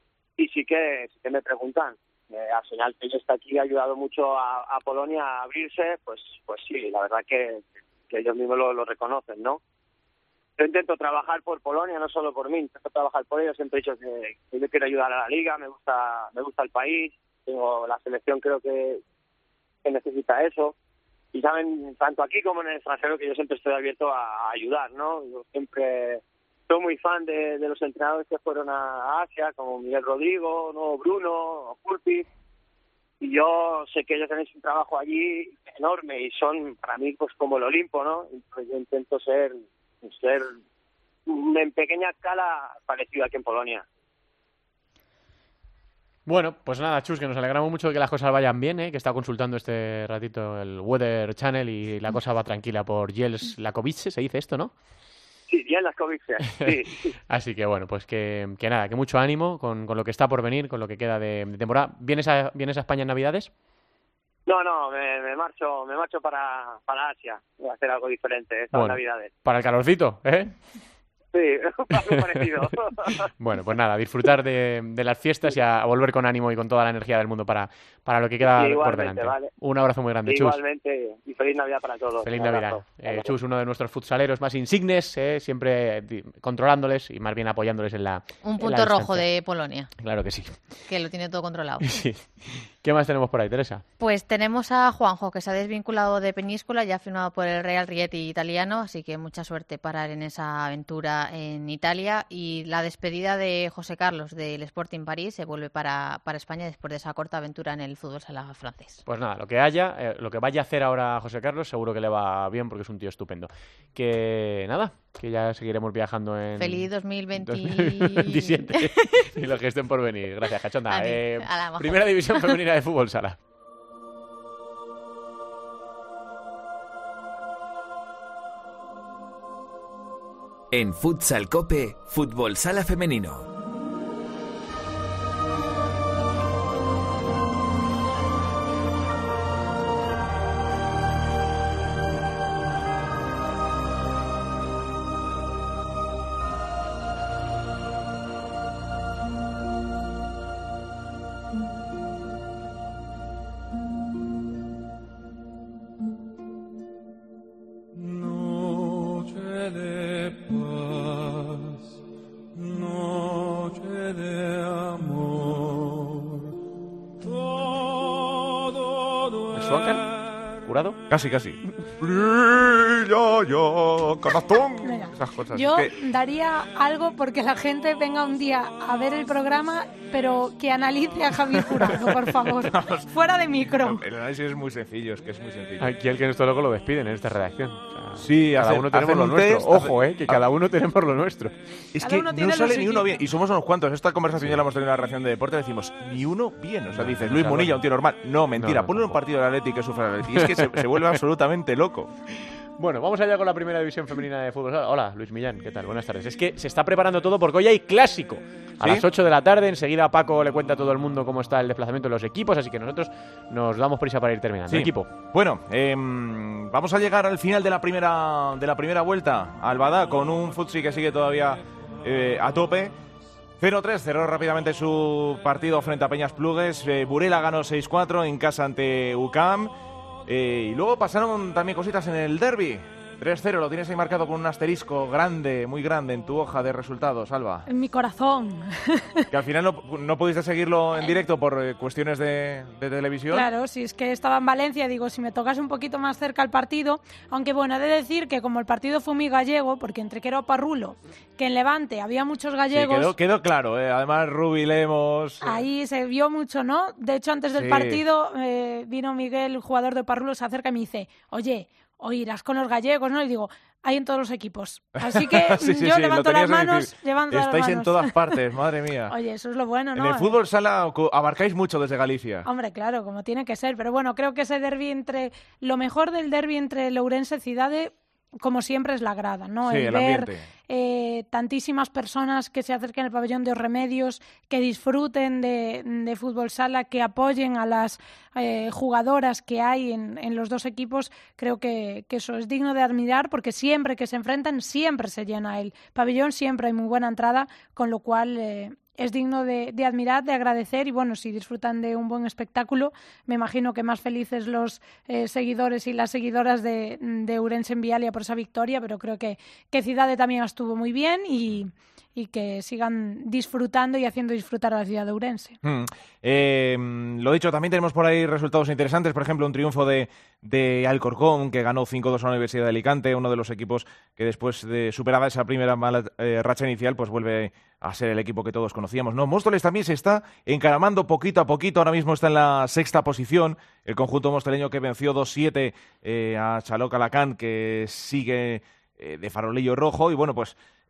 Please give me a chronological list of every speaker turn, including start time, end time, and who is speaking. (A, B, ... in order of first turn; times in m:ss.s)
0:00.4-0:09.6 A
0:10.6-0:19.0 A
0:19.8-0:20.7 A
0:21.3-0:32.2 A
0:33.2-0:40.6 A
0:41.3-0:43.8 A
0:46.2-0:54.7 B
0:55.5-0:57.1 A
0:57.3-1:03.5 B
1:04.4-1:09.3 A
1:08.7-1:10.6 B
1:11.3-1:13.3 A
1:13.4-1:20.6 B
1:18.4-1:19.5 A
1:20.2-1:23.3 A
1:22.2-1:29.2 B
1:28.4-1:29.9 C
1:30.0-1:30.7 B
1:30.9-1:31.9 C
1:31.8-1:33.8 B
1:34.0-1:49.0 C
1:49.0-2:03.4 B
1:56.6-1:59.2 C
2:00.9-2:02.6 C
2:10.7-2:13.5 D
2:45.2-2:45.6 E
2:49.5-2:50.1 B
2:50.6-2:51.0 B
2:51.1-2:56.0 E
2:54.8-3:04.0 F
3:01.9-3:03.1 E
3:03.7-3:05.9 E
3:05.8-3:11.5 B
3:08.2-3:10.4 E
3:11.9-3:22.1 E
3:12.0-3:13.2 F
3:16.9-3:17.8 B
3:18.6-3:19.2 B
3:20.3-3:21.2 B
3:22.8-3:35.1 B
3:28.8-3:29.0 E
3:34.7-3:42.9 E
3:43.6-3:49.7 E
3:50.3-3:57.6 E
3:57.7-3:59.3 F
3:59.3-4:03.4 E
4:03.3-4:13.1 F
4:12.7-4:15.6 E
4:15.4-4:28.4 F
4:17.6-4:18.0 E
4:25.0-4:29.1 E
4:29.1-4:30.4 F
4:29.9-4:32.5 E
4:32.4-5:15.6 F
4:39.6-4:40.4 E
5:15.6-5:40.6 E